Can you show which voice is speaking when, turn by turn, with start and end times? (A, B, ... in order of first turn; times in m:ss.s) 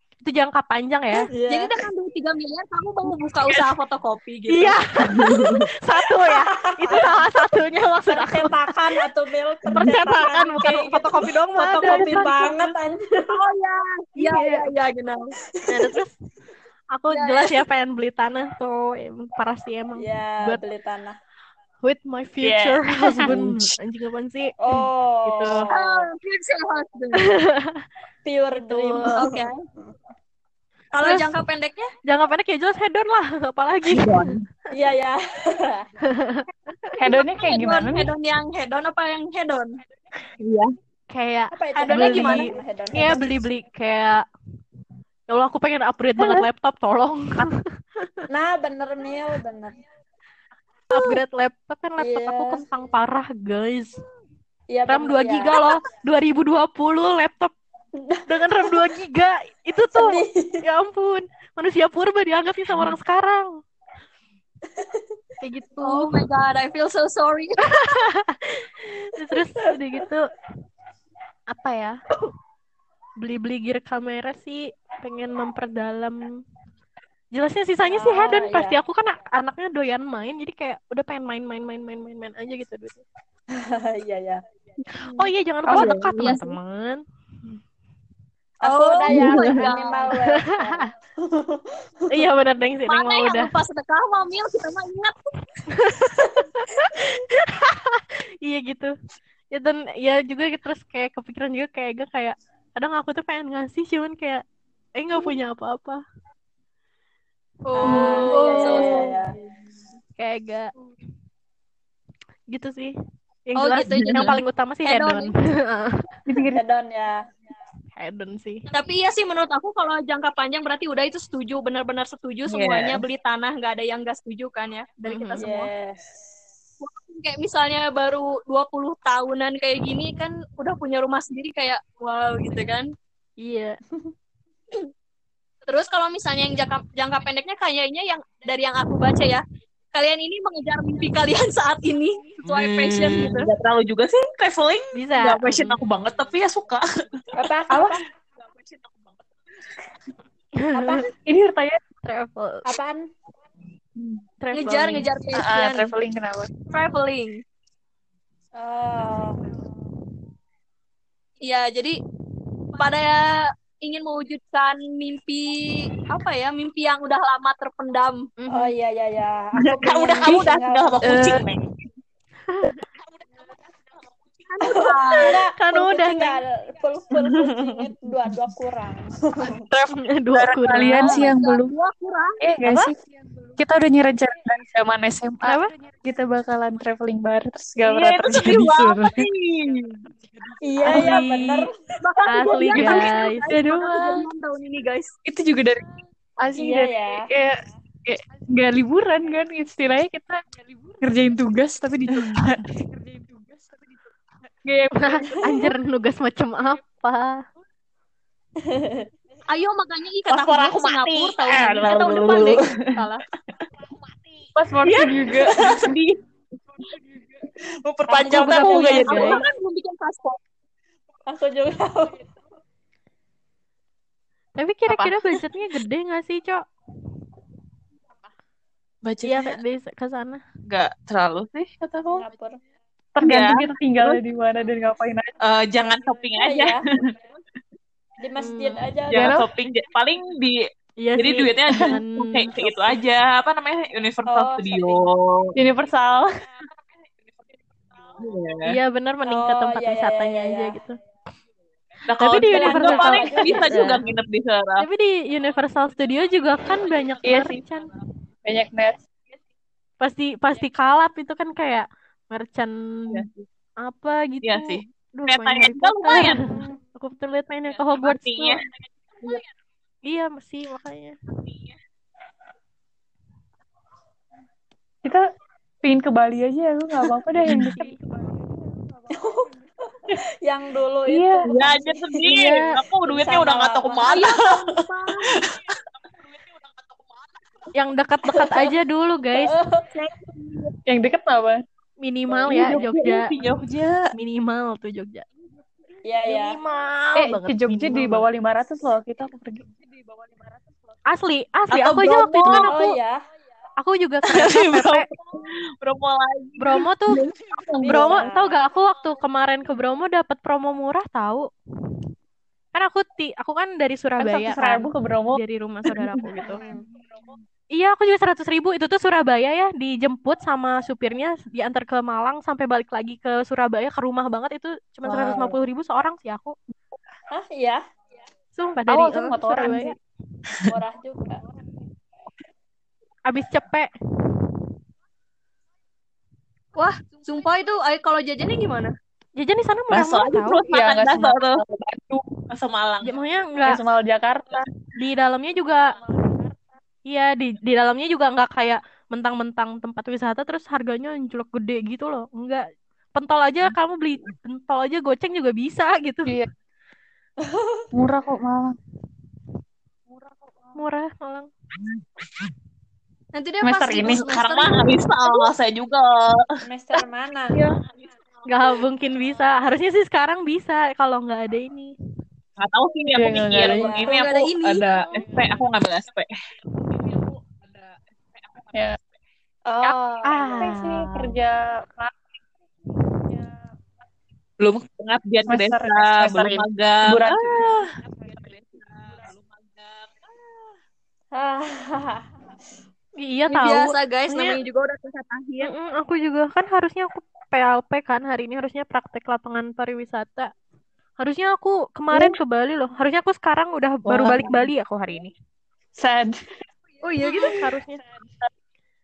0:00.2-0:01.3 A
0:01.2-0:01.7 B
0:01.5-0:04.8 C
0:04.5-0:08.7 A
0:05.1-0:05.7 D
0:06.2-0:07.2 B
0:08.1-0:13.3 B
0:09.7-0:10.8 D
0:09.7-0:12.7 A
0:13.3-0:15.3 C
0:14.2-0:14.7 A
0:15.6-0:15.9 B
0:15.7-0:16.1 A
0:16.9-0:20.6 A
0:17.1-0:17.5 C
0:20.0-0:21.2 B
0:21.8-0:25.7 A
0:22.4-0:23.4 E
0:23.3-0:23.6 D
0:24.6-0:26.1 B
0:25.7-0:27.3 C
0:27.2-0:27.8 A
0:28.2-0:29.9 B
0:28.6-0:29.3 A
0:29.1-0:29.6 C
0:30.9-0:31.9 C
0:31.0-0:31.3 A
0:32.0-0:34.3 A
0:33.9-0:34.4 D
0:34.7-0:35.9 B
0:36.1-0:36.4 A
0:37.0-0:38.1 E
0:37.0-0:39.8 C
0:40.4-0:40.7 D
0:41.1-0:44.2 A
0:41.5-0:43.3 B
0:41.7-0:42.5 C
0:45.3-0:48.2 A
0:48.3-0:49.8 B
0:50.9-0:54.0 A
0:52.0-0:52.6 B
0:54.7-0:55.7 B
0:54.9-0:57.5 A
0:58.0-0:58.7 B
0:58.3-1:03.6 A
0:59.9-1:00.6 B
1:04.7-1:05.0 B
1:05.4-1:06.2 A
1:05.8-1:07.7 C
1:07.6-1:10.4 A
1:11.5-1:12.0 A
1:13.2-1:16.4 A
1:17.3-1:23.0 A
1:17.9-1:18.8 B
1:23.5-1:24.4 B
1:24.9-1:27.6 A
1:25.0-1:26.5 C
1:25.7-1:26.4 D
1:28.6-1:32.3 B
1:28.6-1:30.1 C
1:29.1-1:29.6 D
1:29.2-1:30.9 A
1:32.1-1:33.5 A
1:32.9-1:35.1 C
1:35.7-1:38.9 A
1:39.5-1:44.4 A
1:44.9-1:46.0 A
1:47.6-1:49.1 C
1:47.8-1:49.3 B
1:47.8-1:49.2 A
1:50.2-1:50.7 A
1:52.5-1:52.9 A
1:53.4-1:56.1 A
1:53.6-1:55.3 C
1:53.8-1:54.4 D
1:56.3-1:56.6 E
1:56.5-1:57.2 B
1:58.0-1:58.7 A
1:58.7-2:05.7 C
2:02.5-2:03.0 D
2:05.0-2:05.5 A
2:05.4-2:06.0 B
2:06.8-2:12.9 C
2:13.4-2:13.8 A
2:15.6-2:19.4 C
2:19.9-2:23.5 C
2:22.5-2:27.2 D
2:24.9-2:25.8 A
2:27.3-2:28.0 B
2:27.7-2:28.0 E
2:30.6-2:31.1 A
2:30.7-2:31.1 B
2:31.2-2:31.8 E
2:32.0-2:32.6 A
2:32.6-2:33.1 B
2:34.4-2:35.1 A
2:34.5-2:35.9 C
2:35.3-2:36.5 E
2:36.7-2:37.4 C
2:38.5-2:39.4 B
2:41.4-2:42.0 C
2:42.7-2:43.2 C
2:43.8-2:48.3 C
2:48.4-2:48.7 A
2:48.5-2:51.4 B
2:49.5-2:51.7 D
2:51.0-2:51.4 E
2:52.5-2:52.8 A
2:54.5-2:55.4 C
2:54.6-2:59.6 B
2:55.2-2:56.4 A
2:57.1-2:57.8 D
2:59.5-3:01.7 E
3:00.0-3:01.3 A
3:00.8-3:02.4 C
3:02.4-3:02.9 E
3:03.6-3:09.2 E
3:05.4-3:05.7 A
3:07.8-3:10.1 D
3:10.6-3:11.7 B
3:10.8-3:11.7 A
3:12.0-3:15.1 C
3:12.2-3:12.6 B
3:12.3-3:13.5 A
3:12.8-3:14.2 E
3:15.2-3:15.9 E
3:16.4-3:20.4 E
3:16.6-3:17.3 B
3:21.0-3:22.6 E
3:24.6-3:25.7 E
3:24.9-3:27.4 A
3:28.6-3:29.0 B
3:29.5-3:33.2 C
3:30.3-3:33.0 D
3:34.5-3:35.9 E
3:34.8-3:36.2 D
3:37.8-3:39.4 D
3:38.1-3:39.4 B
3:38.2-3:39.4 A
3:38.7-3:40.4 C
3:41.3-3:42.3 B
3:44.6-3:46.7 A
3:44.9-3:45.1 D
3:49.0-3:49.6 D
3:49.2-3:50.4 A
3:50.7-3:52.2 D
3:52.1-3:52.6 B
3:53.2-3:55.3 E
3:53.2-3:54.2 D
3:55.4-3:57.1 D
3:56.4-3:56.8 B
3:58.2-3:59.4 B
3:58.4-3:58.9 A
3:59.1-4:00.6 D
3:59.1-3:59.4 E
4:01.0-4:03.0 A
4:01.2-4:05.5 D
4:04.3-4:05.0 B
4:05.6-4:06.3 E
4:08.2-4:08.8 D
4:08.6-4:11.0 A
4:09.2-4:10.8 B
4:12.1-4:14.9 D
4:12.2-4:14.0 A
4:12.5-4:14.0 B
4:14.8-4:17.9 A
4:17.2-4:17.6 E
4:18.4-4:19.0 E
4:20.0-4:23.3 A
4:23.1-4:23.4 D
4:23.8-4:28.6 A
4:24.4-4:26.4 D
4:26.2-4:26.7 B
4:28.0-4:28.6 D
4:30.0-4:31.1 A
4:35.8-4:37.8 E
4:37.4-4:37.7 D
4:37.5-4:38.0 A
4:39.1-4:44.3 B
4:41.1-4:41.6 E
4:41.4-4:45.8 D
4:42.2-4:42.8 A
4:44.0-4:45.4 C
4:47.7-4:49.6 A
4:48.3-4:48.7 B
4:49.3-4:49.9 B
4:49.9-4:50.7 C
4:50.8-4:51.6 E
4:52.0-4:53.3 A
4:52.4-4:54.1 D
4:52.5-4:52.8 B
4:54.1-4:55.2 A
4:56.0-4:56.6 B
4:56.2-4:58.3 A
4:57.1-4:59.7 E
5:01.0-5:03.0 A
5:01.7-5:02.7 D
5:02.4-5:03.2 B
5:03.8-5:05.1 A
5:04.3-5:07.5 D
5:06.6-5:07.2 A
5:07.5-5:08.3 E
5:07.8-5:08.6 B
5:07.8-5:11.5 A
5:12.7-5:16.7 A
5:14.2-5:15.4 E
5:16.4-5:16.8 B
5:17.7-5:26.5 A
5:25.0-5:25.5 B
5:27.3-5:27.8 B
5:28.6-5:30.0 A
5:28.9-5:29.9 E
5:30.6-5:31.4 B
5:33.2-5:33.9 A
5:36.8-5:38.9 C
5:39.4-5:40.6 A
5:39.9-5:41.6 D
5:40.7-5:42.3 E
5:42.5-5:43.2 D
5:43.0-5:43.8 A
5:43.6-5:44.7 E
5:44.9-5:46.0 A
5:47.0-5:56.3 A
5:57.4-5:57.8 B
5:57.9-5:58.8 E
6:00.7-6:01.5 A
6:03.3-6:05.5 C
6:03.6-6:04.3 E
6:04.0-6:06.6 D
6:06.6-6:07.6 B
6:08.4-6:12.0 A
6:12.6-6:16.3 D
6:13.1-6:14.1 E
6:13.7-6:14.2 B
6:14.0-6:14.8 C
6:14.9-6:15.2 A
6:19.6-6:20.8 B
6:20.2-6:21.4 A
6:20.5-6:22.2 E
6:24.6-6:27.9 D
6:25.4-6:27.8 E
6:31.3-6:32.2 B
6:33.2-6:34.6 A
6:33.5-6:35.7 C
6:35.6-6:40.5 A
6:41.2-6:45.3 A
6:42.1-6:42.4 E
6:44.1-6:44.7 D
6:45.9-6:46.4 E
6:47.0-6:47.6 C
6:47.3-6:47.6 E
6:47.4-6:48.0 A